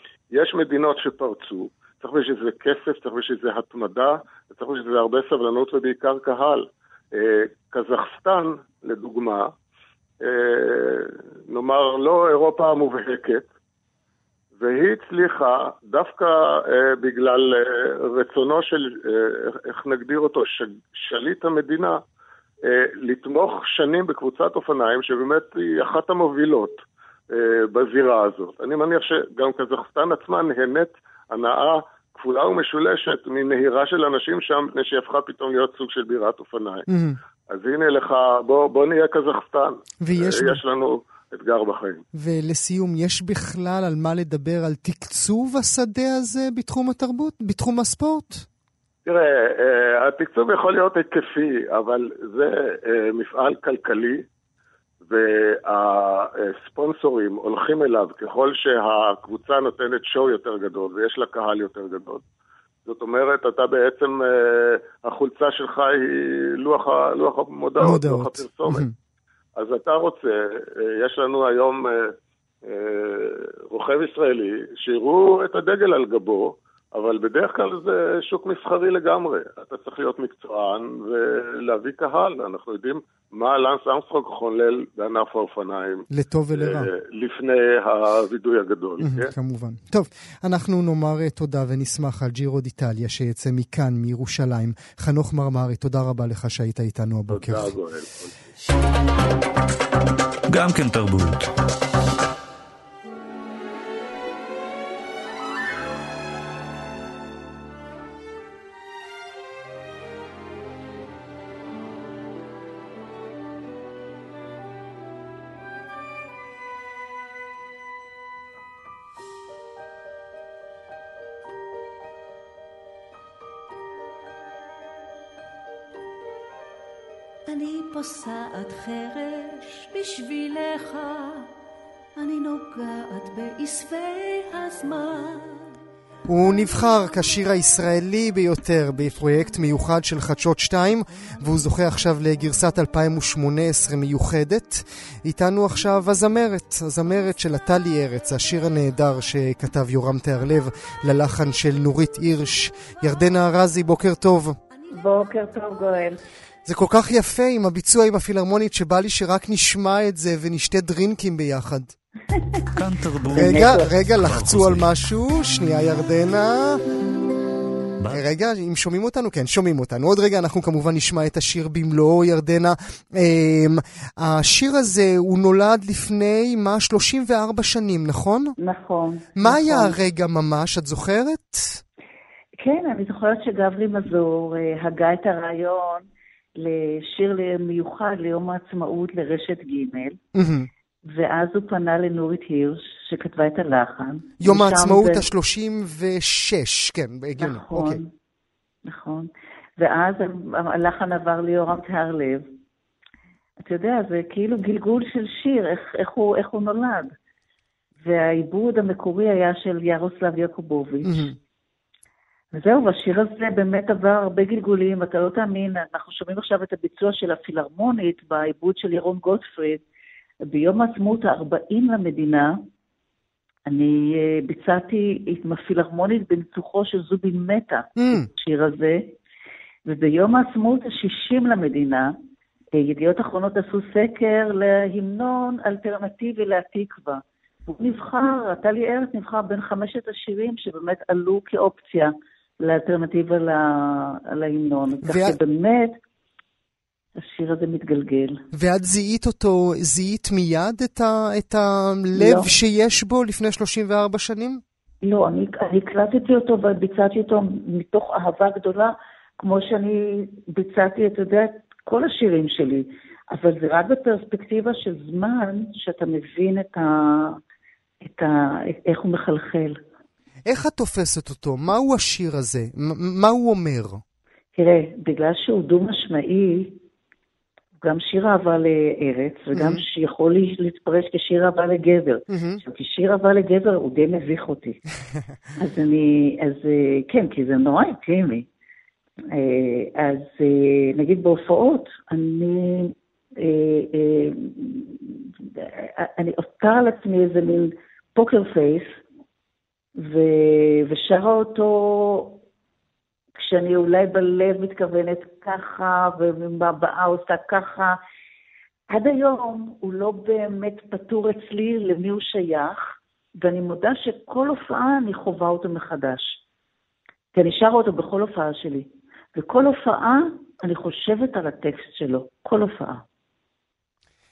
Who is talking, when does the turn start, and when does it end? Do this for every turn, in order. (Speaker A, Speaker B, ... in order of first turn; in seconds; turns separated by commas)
Speaker A: 0.3-9.5, Speaker A: 10.2-13.5, Speaker A: 14.6-22.0, Speaker A: 22.6-36.8, Speaker B: 36.9-37.2, Speaker A: 37.5-42.0, Speaker B: 40.0-40.6, Speaker B: 42.1-48.5, Speaker A: 49.0-54.2, Speaker A: 55.0-62.2, Speaker A: 62.9-68.8, Speaker B: 67.8-68.9, Speaker A: 69.6-89.3, Speaker B: 86.1-86.9, Speaker B: 89.0-97.7, Speaker A: 97.3-98.4, Speaker C: 100.5-101.5, Speaker D: 128.2-129.1, Speaker D: 132.5-134.5, Speaker B: 136.2-154.6, Speaker E: 154.9-156.2, Speaker B: 156.6-161.9, Speaker C: 162.7-164.9, Speaker B: 163.3-166.8, Speaker E: 163.4-163.8, Speaker B: 168.1-178.6, Speaker E: 178.6-179.9, Speaker B: 179.3-181.8, Speaker E: 182.6-190.2, Speaker B: 190.3-190.7, Speaker E: 191.1-195.2, Speaker B: 194.4-198.0, Speaker E: 197.4-198.1, Speaker E: 198.8-202.4, Speaker E: 203.6-207.1, Speaker E: 208.0-211.3, Speaker B: 211.0-211.3, Speaker E: 212.5-219.8, Speaker E: 220.5-222.5, Speaker E: 223.7-229.1, Speaker B: 228.0-228.3, Speaker E: 229.8-232.1, Speaker E: 232.7-246.0, Speaker B: 245.0-245.4, Speaker E: 247.2-248.4, Speaker B: 248.5-254.6, Speaker E: 252.1-252.5, Speaker E: 255.0-267.4, Speaker E: 268.0-269.8, Speaker B: 270.4-274.0, Speaker E: 274.5-276.8, Speaker E: 277.8-284.8, Speaker B: 279.5-279.8, Speaker B: 282.3-282.6, Speaker E: 285.6-288.5, Speaker E: 289.3-299.0, Speaker E: 300.0-302.4, Speaker E: 303.4-308.0, Speaker E: 308.9-312.8, Speaker E: 313.4-316.4, Speaker E: 317.3-323.0